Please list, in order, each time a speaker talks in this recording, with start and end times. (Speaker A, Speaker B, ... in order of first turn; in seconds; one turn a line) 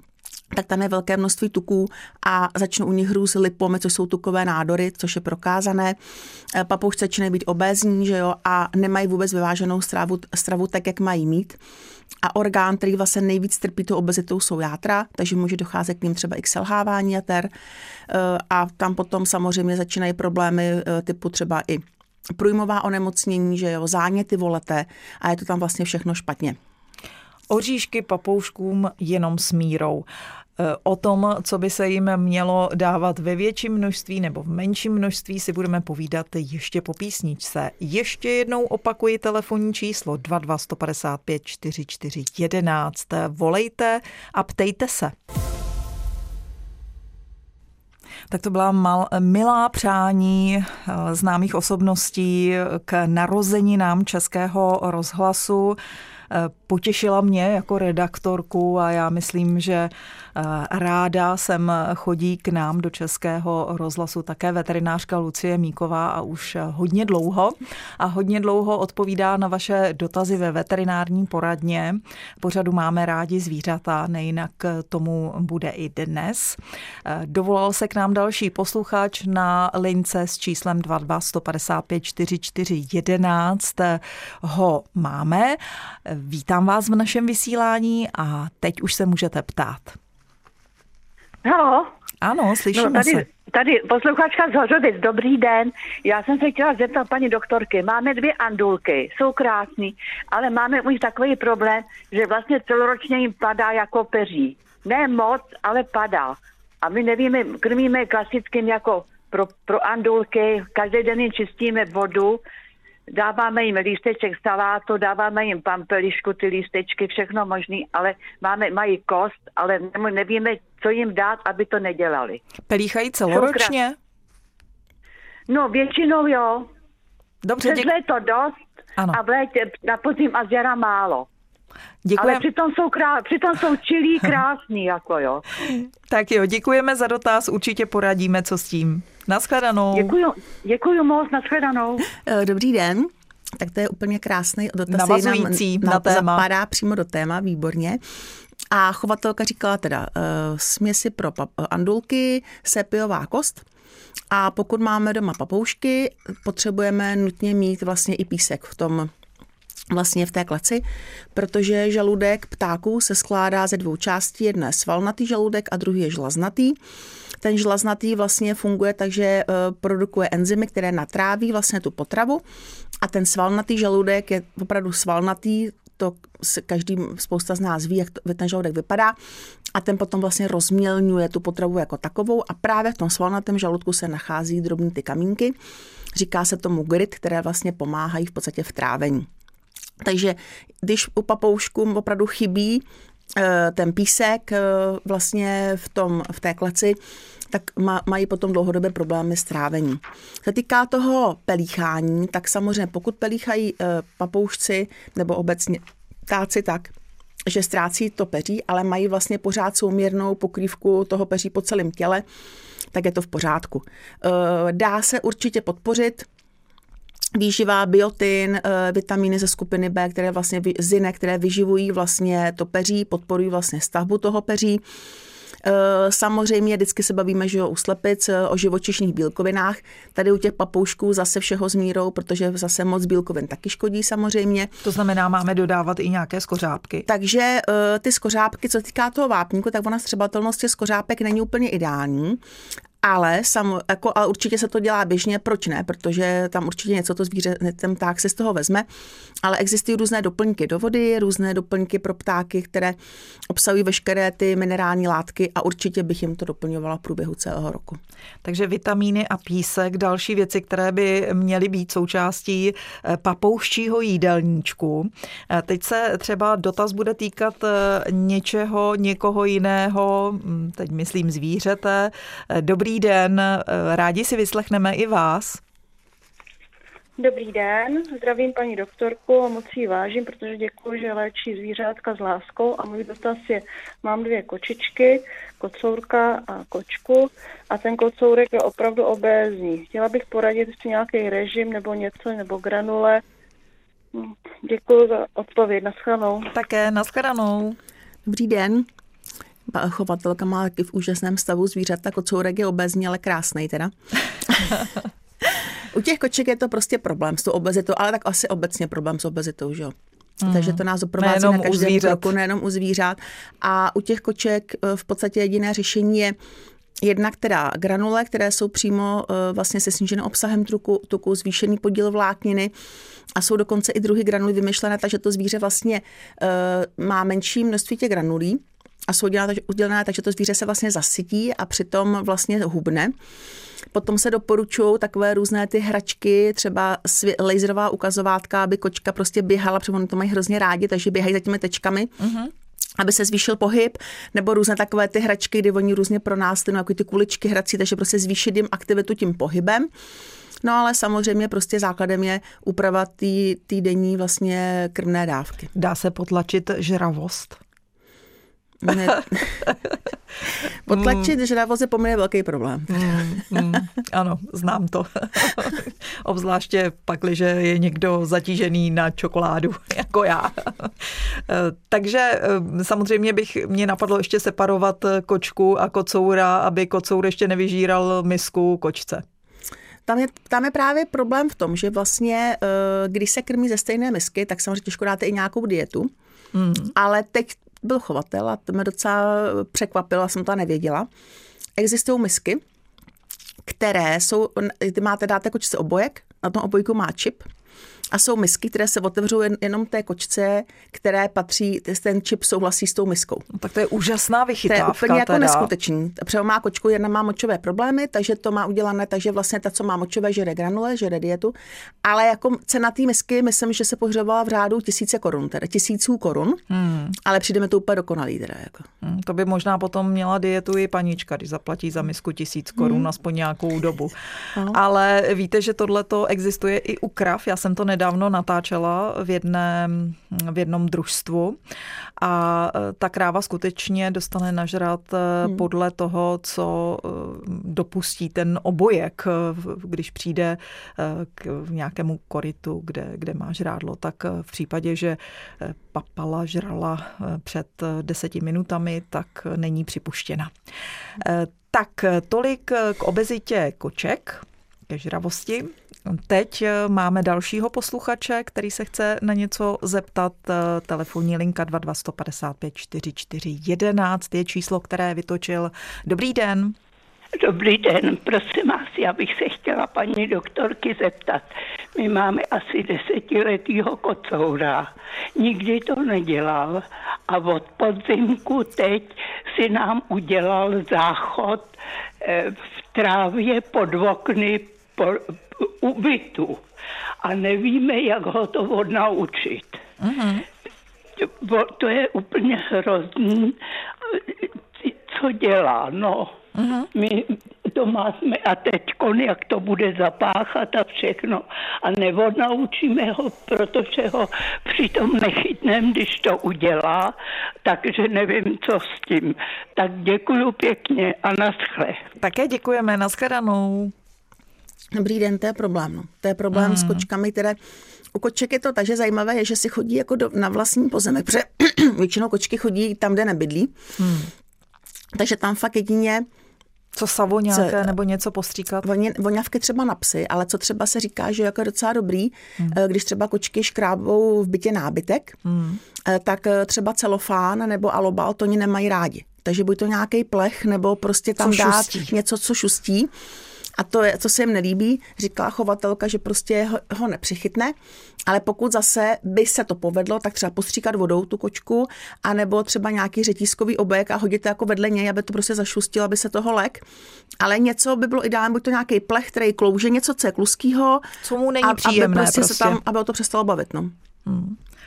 Speaker A: 0.5-6.0
Speaker A: 6.5-11.6
Speaker A: 12.2-17.5
Speaker A: 18.1-26.6
Speaker B: 27.5-30.1
Speaker B: 30.6-45.1
Speaker B: 48.3-55.8
Speaker B: 56.3-90.0
Speaker C: 91.4-91.9
Speaker B: 92.2-93.2
Speaker C: 92.7-112.4
Speaker C: 113.1-122.4
Speaker B: 122.7-124.0
Speaker C: 123.3-123.7
Speaker C: 125.5-126.7
Speaker B: 127.4-127.9
Speaker C: 127.6-128.6
Speaker C: 129.1-131.3
Speaker B: 132.1-132.4
Speaker C: 132.2-135.4
Speaker B: 135.7-140.2
Speaker C: 139.9-142.1
Speaker A: 142.1-148.0
Speaker B: 144.9-146.4
Speaker A: 148.7-153.6
Speaker A: 154.3-159.1
Speaker A: 159.9-166.8
Speaker A: 167.4-172.4
Speaker A: 173.0-179.2
Speaker A: 179.7-185.6
Speaker A: 186.2-189.3
Speaker A: 190.0-192.8
Speaker A: 193.4-197.0
Speaker A: 197.5-206.9
Speaker A: 207.5-212.2
Speaker A: 212.9-216.3
Speaker A: 217.3-224.8
Speaker A: 225.6-234.7
Speaker B: 234.8-237.1
Speaker A: 237.1-242.4
Speaker A: 243.0-248.9
Speaker A: 249.4-253.0
Speaker A: 253.5-258.0
Speaker B: 258.4-275.6
Speaker D: 277.2-293.2
Speaker D: 294.1-296.5
Speaker B: 296.5-297.8
Speaker A: 298.3-298.9
Speaker A: 299.7-303.9
Speaker A: 304.5-304.7
Speaker A: 305.5-316.4
Speaker B: 310.4-312.3
Speaker A: 317.0-322.7
Speaker A: 323.4-333.1
Speaker A: 333.9-342.1
Speaker B: 342.2-342.5
Speaker A: 343.0-349.9
Speaker A: 350.6-355.7
Speaker B: 355.8-357.6
Speaker A: 358.8-359.6
Speaker B: 358.9-359.7
Speaker A: 360.9-363.8
Speaker B: 360.9-361.3
Speaker B: 362.9-379.2
Speaker A: 380.1-386.1
Speaker B: 386.5-386.9
Speaker A: 387.0-391.1
Speaker A: 391.8-392.6
Speaker A: 393.6-397.5
Speaker A: 398.1-403.5
Speaker B: 403.5-405.7
Speaker A: 404.7-416.6
Speaker B: 416.7-417.2
Speaker A: 417.2-418.9
Speaker B: 419.0-424.1
Speaker A: 422.8-423.1
Speaker B: 424.7-431.6
Speaker B: 432.2-450.5
Speaker B: 451.2-466.8
Speaker E: 467.4-486.6
Speaker E: 487.2-489.8
Speaker B: 490.0-490.4
Speaker E: 491.2-496.4
Speaker B: 496.6-496.9
Speaker E: 496.9-512.0
Speaker B: 512.2-513.9
Speaker A: 514.9-517.6
Speaker B: 516.5-517.0
Speaker A: 518.1-523.8
Speaker B: 524.0-524.3
Speaker A: 525.1-526.3
Speaker B: 527.0-528.9
Speaker A: 527.5-527.9
Speaker A: 528.8-535.4
Speaker B: 535.5-535.8
Speaker A: 536.0-543.1
Speaker B: 541.4-542.1
Speaker A: 543.8-547.8
Speaker A: 548.3-556.8
Speaker A: 557.4-561.1
Speaker B: 561.2-562.8
Speaker A: 561.6-563.9
Speaker B: 564.3-564.6